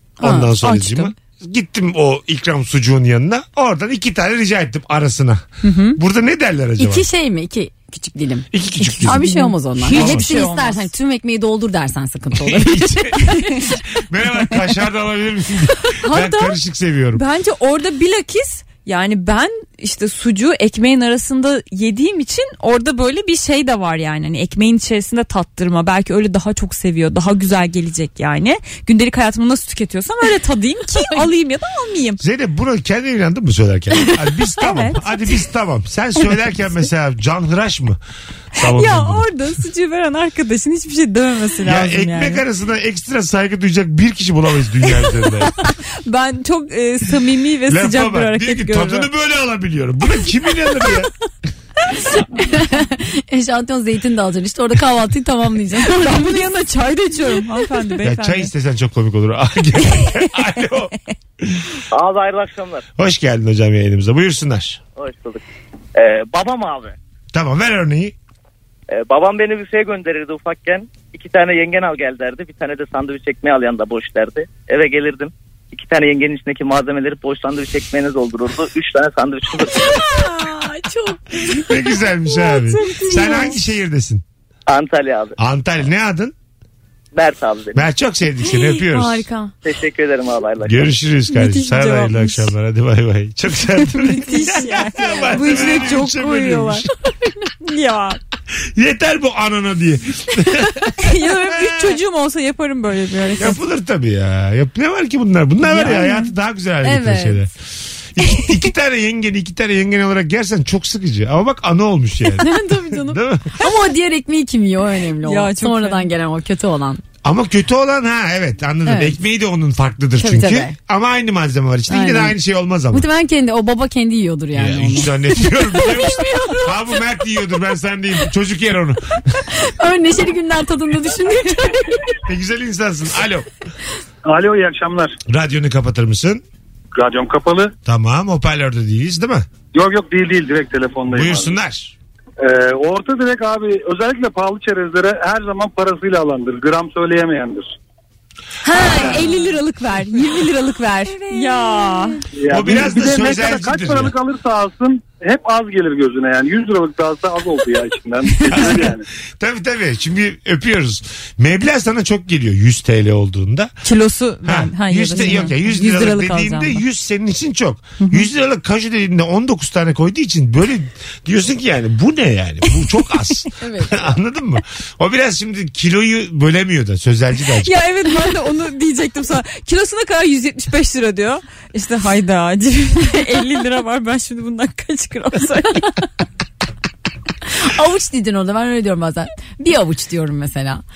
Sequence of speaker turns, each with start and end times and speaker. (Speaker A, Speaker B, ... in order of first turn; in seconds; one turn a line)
Speaker A: 0.2-7.1
Speaker B: 0.2-1.1
Speaker C: 5.6-6.0
Speaker B: 6.8-13.5
Speaker A: 8.5-9.3
Speaker C: 9.0-10.9
Speaker A: 9.9-10.3
Speaker A: 12.3-17.2
Speaker C: 16.0-16.6
Speaker C: 17.1-32.2
Speaker A: 32.2-38.0
Speaker C: 34.6-35.3
Speaker A: 38.5-39.3
Speaker C: 38.6-42.4
Speaker A: 41.6-45.5
Speaker C: 46.1-49.1
Speaker A: 47.7-51.1
Speaker B: 52.1-56.4
Speaker C: 55.8-58.5
Speaker A: 58.0-61.6
Speaker D: 61.9-62.8
Speaker A: 63.0-64.8
Speaker D: 65.0-65.4
Speaker D: 66.0-67.0
Speaker A: 67.3-68.1
Speaker D: 68.9-79.9
Speaker B: 79.8-81.7
Speaker A: 81.5-84.2
Speaker C: 82.3-83.6
Speaker D: 84.7-85.3
Speaker A: 85.4-86.3
Speaker D: 87.1-87.9
Speaker A: 87.7-89.3
Speaker C: 88.9-89.4
Speaker B: 89.2-89.5
Speaker D: 89.7-90.9
Speaker A: 90.6-96.9
Speaker C: 91.3-92.5
Speaker C: 93.8-96.9
Speaker C: 97.6-98.2
Speaker A: 98.8-102.0
Speaker C: 101.0-103.6
Speaker A: 103.4-113.5
Speaker C: 105.6-106.3
Speaker B: 106.8-107.5
Speaker B: 112.4-117.0
Speaker C: 115.2-116.1
Speaker A: 117.2-123.1
Speaker B: 118.9-119.2
Speaker B: 120.2-120.7
Speaker B: 121.9-122.4
Speaker B: 122.9-126.7
Speaker A: 124.5-129.0
Speaker B: 129.6-132.0
Speaker A: 132.2-133.5
Speaker E: 134.2-135.2
Speaker A: 135.3-136.4
Speaker E: 136.9-137.7
Speaker A: 137.9-139.5
Speaker E: 139.7-141.6
Speaker A: 141.1-141.9
Speaker E: 142.4-147.8
Speaker C: 148.7-152.2
Speaker B: 148.7-149.4
Speaker B: 151.0-152.2
Speaker E: 152.4-159.0
Speaker A: 152.5-154.1
Speaker A: 158.5-163.7
Speaker C: 163.8-166.8
Speaker A: 164.4-177.7
Speaker C: 168.0-168.3
Speaker B: 173.6-174.0
Speaker C: 177.6-185.9
Speaker B: 187.6-190.8